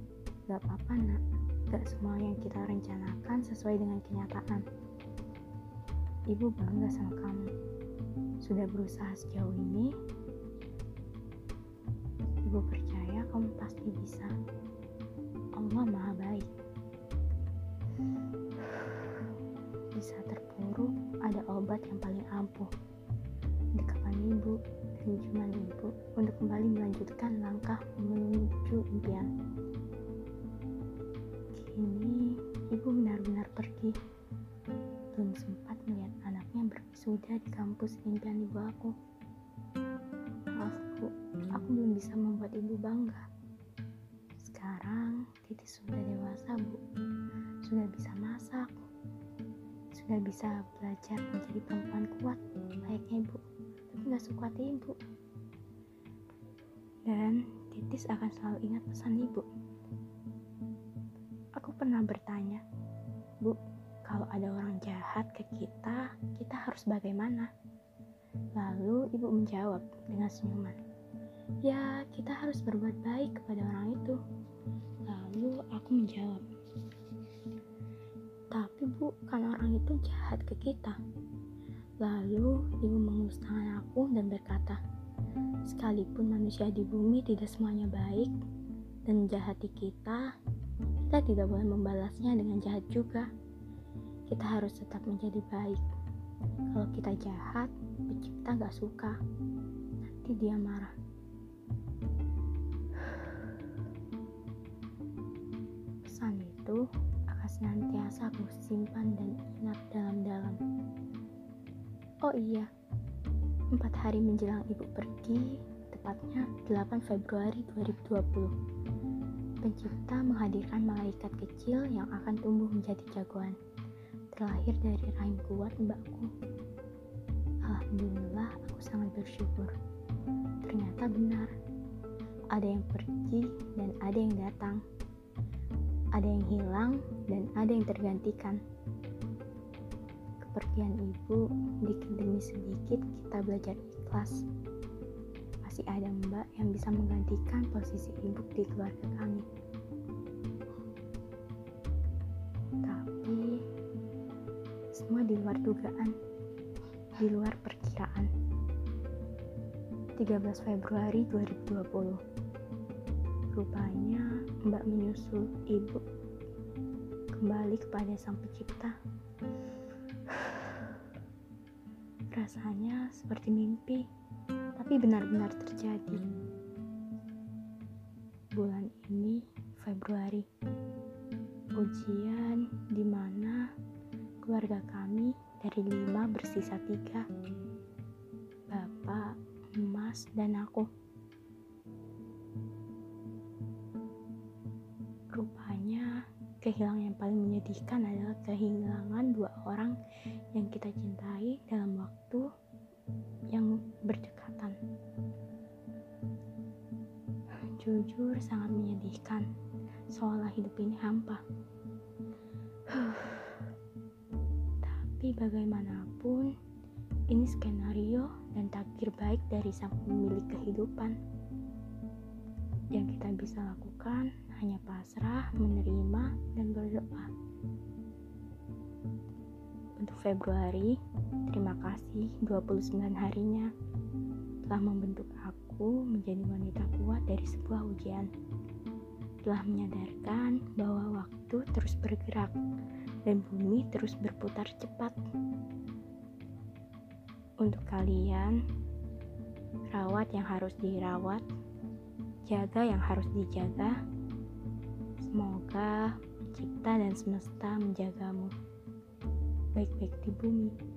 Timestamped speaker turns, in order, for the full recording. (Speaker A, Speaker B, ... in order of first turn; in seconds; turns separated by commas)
Speaker A: 0.5-4.7, Speaker A: 6.3-7.5, Speaker A: 8.4-9.9, Speaker A: 12.4-14.3, Speaker A: 15.6-16.5, Speaker A: 18.7-19.1, Speaker A: 19.9-22.7, Speaker A: 23.8-29.3, Speaker A: 31.6-34.0, Speaker A: 35.1-38.9, Speaker A: 40.5-43.2, Speaker A: 44.4-46.8, Speaker A: 47.6-48.8, Speaker A: 49.9-55.0, Speaker A: 57.1-59.5, Speaker A: 61.6-62.6, Speaker A: 63.4-67.5, Speaker A: 68.6-70.8, Speaker A: 71.6-74.2, Speaker A: 75.1-76.4, Speaker A: 78.5-81.0, Speaker A: 82.0-84.8, Speaker A: 85.7-88.3, Speaker A: 89.1-90.3, Speaker A: 91.0-93.3, Speaker A: 94.3-95.8, Speaker A: 96.7-99.2, Speaker A: 100.0-100.9, Speaker A: 103.0-103.3, Speaker A: 106.0-110.6, Speaker A: 112.2-112.7, Speaker A: 113.7-118.5, Speaker A: 119.6-123.6, Speaker A: 124.3-126.3, Speaker A: 127.6-129.7, Speaker A: 130.6-131.5, Speaker A: 132.5-134.8, Speaker A: 136.2-138.6, Speaker A: 140.4-144.4, Speaker A: 145.6-149.5, Speaker A: 152.8-153.5, Speaker A: 154.9-156.1, Speaker A: 157.2-158.3, Speaker A: 160.2-162.2, Speaker A: 163.5-166.0, Speaker A: 167.3-168.9, Speaker A: 170.3-170.9, Speaker A: 172.3-174.0, Speaker A: 174.8-176.2, Speaker A: 178.5-180.5, Speaker A: 181.8-183.6, Speaker A: 184.4-187.2, Speaker A: 188.7-190.9, Speaker A: 195.3-196.1, Speaker A: 196.6-200.0, Speaker A: 200.5-202.4, Speaker A: 203.5-204.8, Speaker A: 207.8-209.5, Speaker A: 210.1-211.4, Speaker A: 212.9-213.7, Speaker A: 214.8-216.5, Speaker A: 217.3-221.2, Speaker A: 222.9-227.3, Speaker A: 230.0-233.7, Speaker A: 234.7-238.3, Speaker A: 239.5-242.6, Speaker A: 243.3-245.2, Speaker A: 247.6-248.6, Speaker A: 249.9-251.4, Speaker A: 252.5-254.0, Speaker A: 255.2-258.5, Speaker A: 259.8-260.7